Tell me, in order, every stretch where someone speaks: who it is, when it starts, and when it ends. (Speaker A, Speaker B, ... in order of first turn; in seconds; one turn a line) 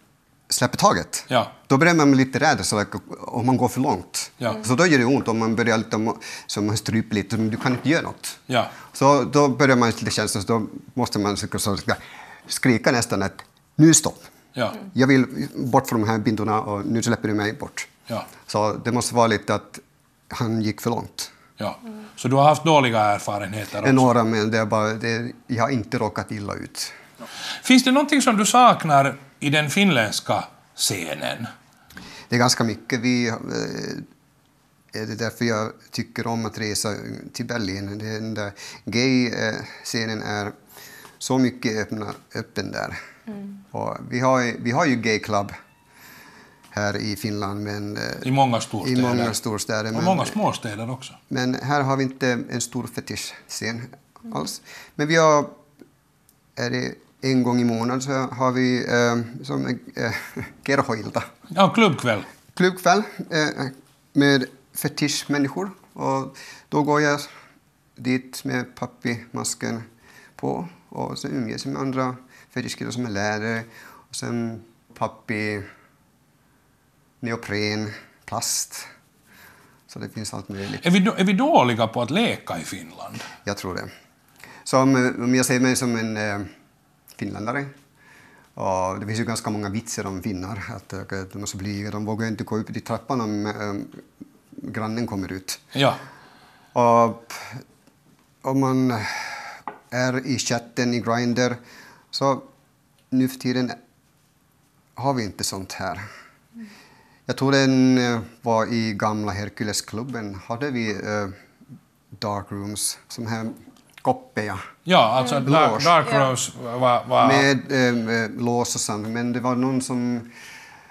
Speaker A: 0.5-8.4
Speaker B: 8.5-8.7
Speaker A: 8.9-14.3
Speaker B: 14.5-14.8
Speaker A: 14.8-17.9
Speaker A: 18.5-21.3
Speaker B: 21.6-24.1
Speaker A: 23.8-26.9
Speaker B: 27.6-31.5
Speaker A: 32.3-34.0
Speaker A: 34.9-40.5
Speaker A: 41.2-43.0
Speaker A: 43.7-45.5
Speaker A: 46.7-48.3
Speaker B: 48.2-49.4
Speaker A: 48.8-50.4
Speaker B: 49.9-51.2
Speaker A: 51.3-55.5
Speaker A: 56.5-61.3
Speaker B: 61.5-62.3
Speaker A: 62.5-67.3
Speaker A: 68.0-69.8
Speaker A: 70.4-75.7
Speaker A: 77.2-78.9
Speaker A: 79.9-80.8
Speaker B: 80.8-83.3
Speaker A: 83.4-83.9
Speaker A: 84.7-86.5
Speaker A: 87.2-87.7
Speaker A: 88.5-94.0
Speaker A: 94.5-95.6
Speaker B: 95.7-96.0
Speaker A: 96.7-97.6
Speaker A: 98.4-101.6
Speaker A: 102.1-102.5
Speaker A: 103.1-103.8
Speaker A: 105.0-106.0
Speaker A: 107.3-111.3
Speaker A: 112.2-114.7
Speaker B: 114.8-117.5
Speaker A: 115.4-115.9
Speaker A: 117.2-120.3